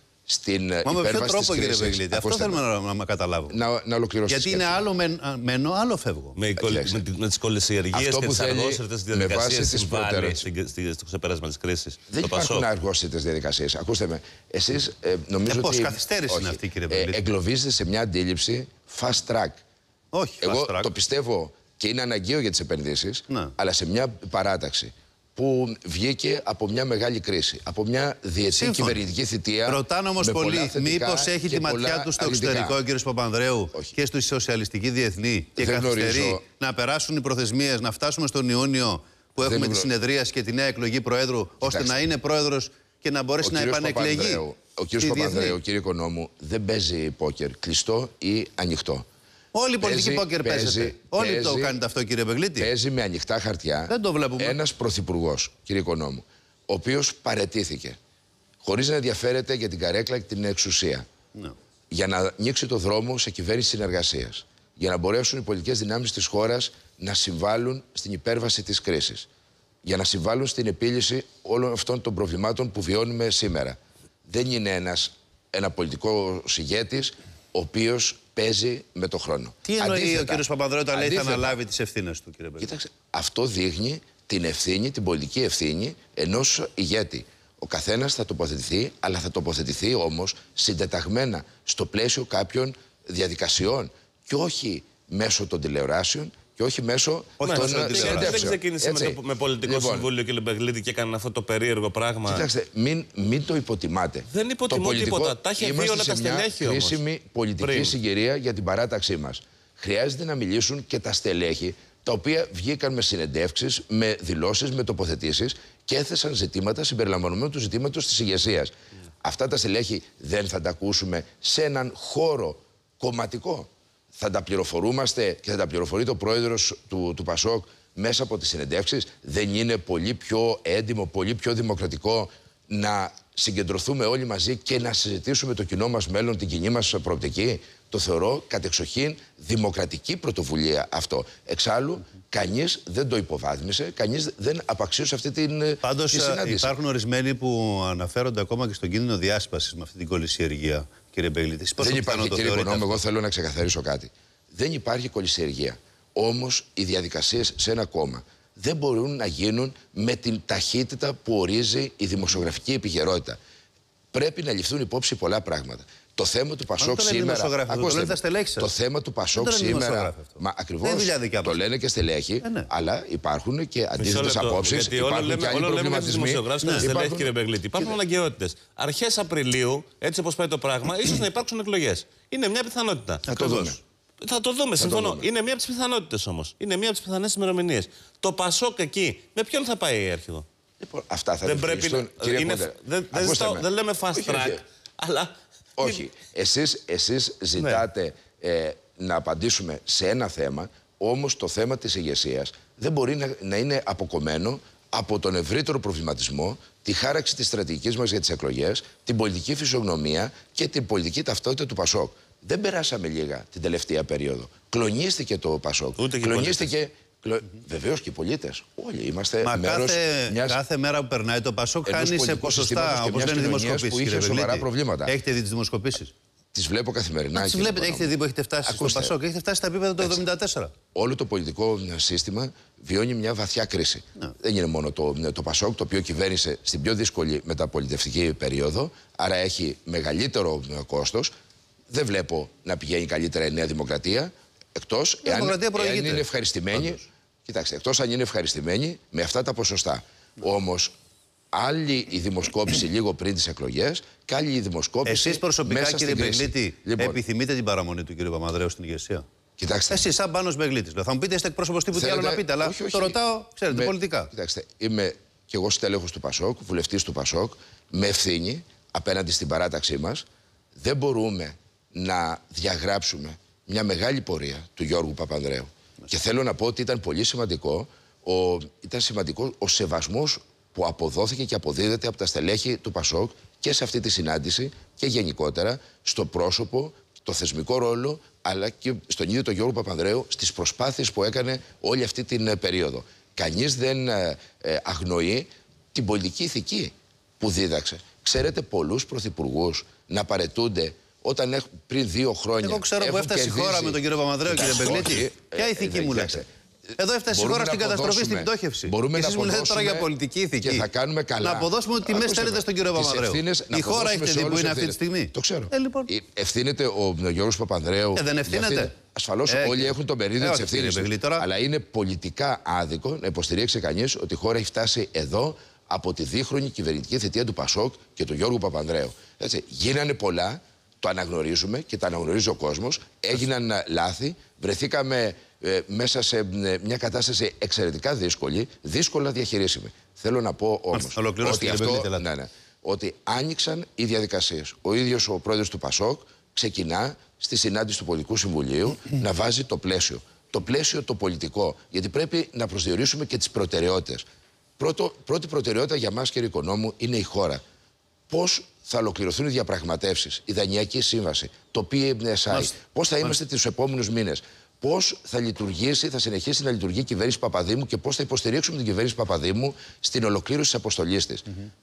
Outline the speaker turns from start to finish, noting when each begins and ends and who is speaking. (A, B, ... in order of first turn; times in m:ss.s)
0:00.3-0:02.6 A
0:00.8-0:03.6 B
0:03.5-0:04.8 A
0:04.3-0:06.4 B
0:06.4-0:12.7 C
0:06.6-0:07.0 A
0:07.9-0:10.4 A
0:12.1-0:19.6 A
0:15.4-0:17.2 B
0:20.1-0:20.9 B
0:20.4-0:32.8 A
0:28.5-0:29.0 B
0:29.6-0:44.4 B
0:35.6-0:36.4 A
0:39.4-0:39.9 A
0:41.6-0:42.0 A
0:43.4-0:49.0 A
0:45.0-0:45.6 B
0:49.5-0:52.7 B
0:49.8-0:51.8 A
0:52.6-0:58.0 A
0:53.9-0:54.6 B
0:58.6-1:01.0 A
1:01.9-1:09.3 A
1:09.8-1:21.6 A
1:19.6-1:22.7 B
1:22.6-1:40.1 A
1:37.4-1:38.5 B
1:37.4-1:42.5 C
1:42.2-2:26.8 A
1:44.3-1:47.0 C
1:47.6-1:47.9 C
2:25.8-2:33.0 B
2:31.8-2:43.4 A
2:44.1-2:57.3 A
2:46.8-2:48.7 B
2:49.3-2:51.6 B
2:52.4-2:52.7 B
2:54.0-3:03.3 C
2:56.6-2:56.9 B
3:03.3-3:03.8 B
3:03.3-3:03.8 A
3:04.2-3:10.4 C
3:04.8-3:05.3 A
3:10.8-3:14.6 A
3:11.4-3:16.0 C
3:15.8-3:40.6 A
3:17.6-3:17.8 C
3:36.0-3:36.7 C
3:39.4-3:46.1 B
3:41.8-3:45.1 A
3:46.5-3:49.1 A
3:47.3-3:50.7 B
3:50.9-4:01.3 A
4:01.9-4:10.9 A
4:05.2-4:07.0 B
4:11.5-4:17.2 A
4:15.0-4:19.2 B
4:19.6-4:20.0 A
4:19.9-4:24.3 B
4:21.9-4:30.2 A
4:30.8-5:06.5 A
5:02.6-5:06.4 B
5:07.0-5:10.9 B
5:07.3-5:10.1 A
5:10.6-5:54.2 A
5:11.4-5:16.1 B
5:18.1-5:18.9 B
5:19.5-5:21.5 B
5:40.9-5:42.3 B
5:54.8-5:57.6 A
5:58.3-6:11.4 A
6:02.5-6:03.4 B